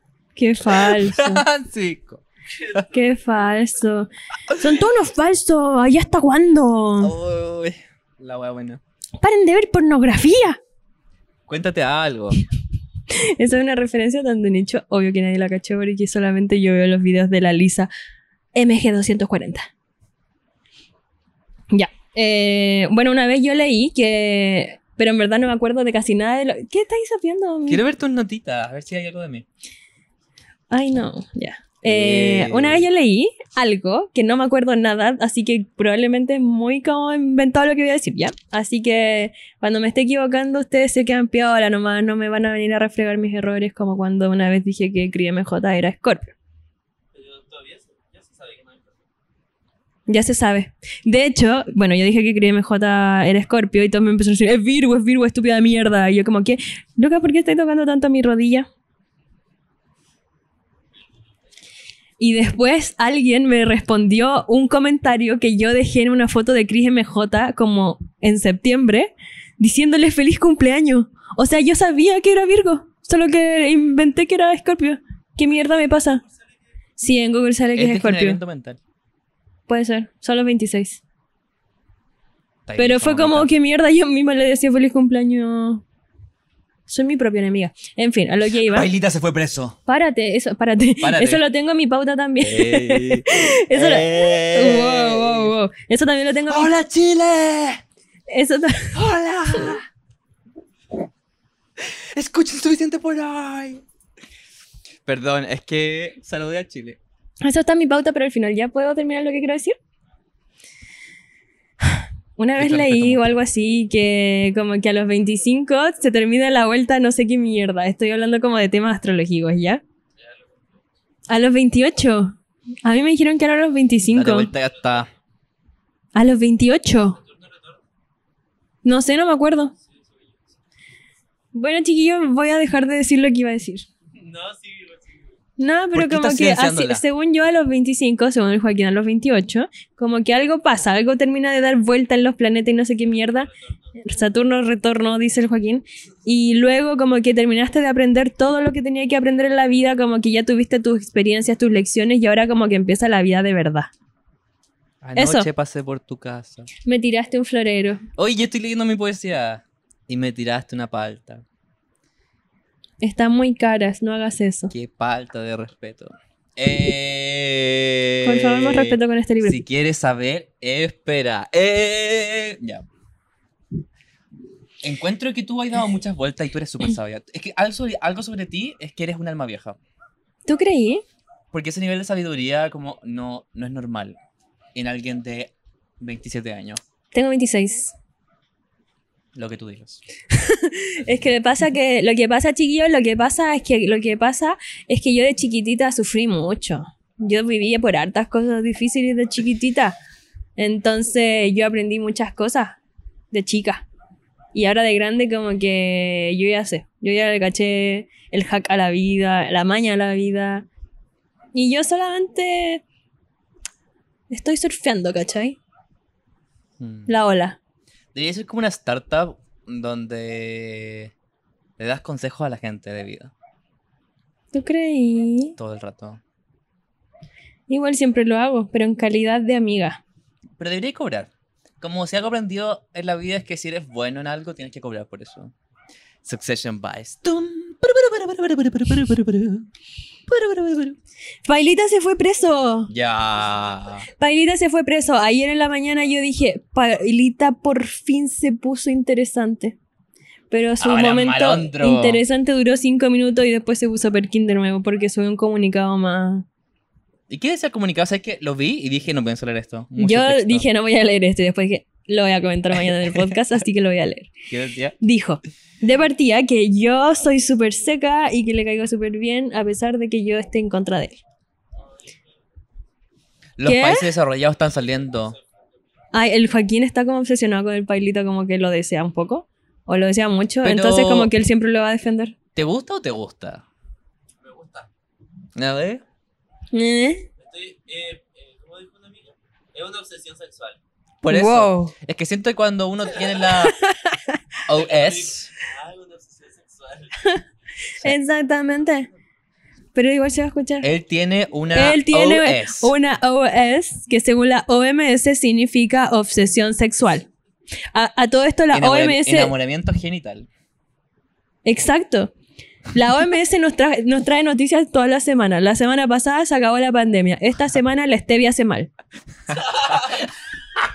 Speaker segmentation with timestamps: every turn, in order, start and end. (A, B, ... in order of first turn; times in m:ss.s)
0:00.4-0:01.4 A
0:00.6-0:02.8 B
0:02.8-0:07.1 A
0:07.0-0:08.8 B
0:09.2-0:10.6 A
0:11.5-0:12.4 B
0:13.1-0:17.9 A
0:18.5-0:19.7 A
0:21.7-0:27.8 A
0:27.7-0:29.4 B
0:30.7-0:46.3 A
0:31.8-0:32.8 B
0:47.1-0:49.1 C
0:50.1-0:58.7 A
1:02.2-1:16.2 A
1:17.0-1:18.4 A
1:17.7-1:18.8 B
1:19.7-1:21.0 A
1:22.6-1:23.5 B
1:22.8-1:25.8 A
1:26.9-1:28.9 A
1:28.7-1:29.8 B
1:29.9-1:36.7 A
1:31.0-1:31.4 B
1:32.4-1:35.5 B
1:36.5-1:37.8 B
1:38.3-1:39.0 A
1:38.9-1:39.8 B
1:41.8-1:43.8 B
1:45.0-1:47.0 B
1:47.4-1:49.7 A
1:51.9-1:59.8 A
1:52.6-1:53.4 B
2:00.2-2:00.8 C
2:01.3-2:04.5 A
2:04.1-2:05.1 B
2:06.1-2:07.2 A
2:07.1-2:07.8 C
2:08.8-2:09.7 A
2:09.8-2:10.5 C
2:11.5-2:13.9 A
2:14.2-2:15.4 C
2:15.6-2:33.9 A
2:15.9-2:17.0 B
2:23.5-2:23.9 C
2:35.0-2:36.7 B
2:35.2-2:35.5 A
2:36.8-2:38.0 A
2:38.2-2:41.4 B
2:43.0-2:44.7 A
2:44.7-2:52.8 B
2:48.2-2:49.6 A
2:54.8-2:59.8 B
3:00.4-3:01.0 A
3:01.5-3:04.2 B
3:04.7-3:06.8 B
3:07.1-3:07.9 A
3:09.3-3:10.0 B
3:10.3-3:20.0 A
3:20.6-3:22.8 A
3:23.3-3:23.9 A
3:24.5-3:30.7 A
3:31.5-3:32.8 A
3:34.3-3:35.6 A
3:36.8-3:37.1 B
3:37.1-3:37.6 A
3:38.1-3:41.1 B
3:41.8-3:43.3 B
3:44.5-3:45.6 A
3:45.6-3:46.2 B
3:47.7-3:50.0 A
3:50.6-3:55.5 B
3:56.2-3:59.7 B
4:00.3-4:01.0 B
4:01.4-4:02.9 A
4:02.9-4:04.1 B
4:04.2-4:09.8 A
4:10.5-4:16.4 A
4:10.8-4:12.2 B
4:17.3-4:20.6 B
4:20.0-4:24.3 A
4:22.8-4:23.4 B
4:24.5-4:25.0 B
4:25.0-4:31.2 A
4:31.9-4:32.4 C
4:33.6-4:35.4 B
4:33.6-4:34.1 A
4:35.1-4:35.7 C
4:36.1-4:42.3 A
4:40.6-4:41.3 B
4:42.5-4:43.6 B
4:44.4-4:44.9 C
4:45.6-4:46.0 B
4:46.7-4:47.3 A
4:47.4-4:50.8 C
4:51.2-4:53.8 B
4:51.3-4:51.9 A
4:53.7-4:54.4 A
4:54.7-4:55.5 B
4:54.7-4:57.4 C
4:58.0-4:59.1 A
4:59.9-5:00.9 A
5:00.8-5:02.9 B
5:01.7-5:07.3 A
5:07.9-5:09.5 A
5:08.7-5:10.5 B
5:11.6-5:12.3 A
5:12.9-5:18.9 A
5:19.5-5:20.3 B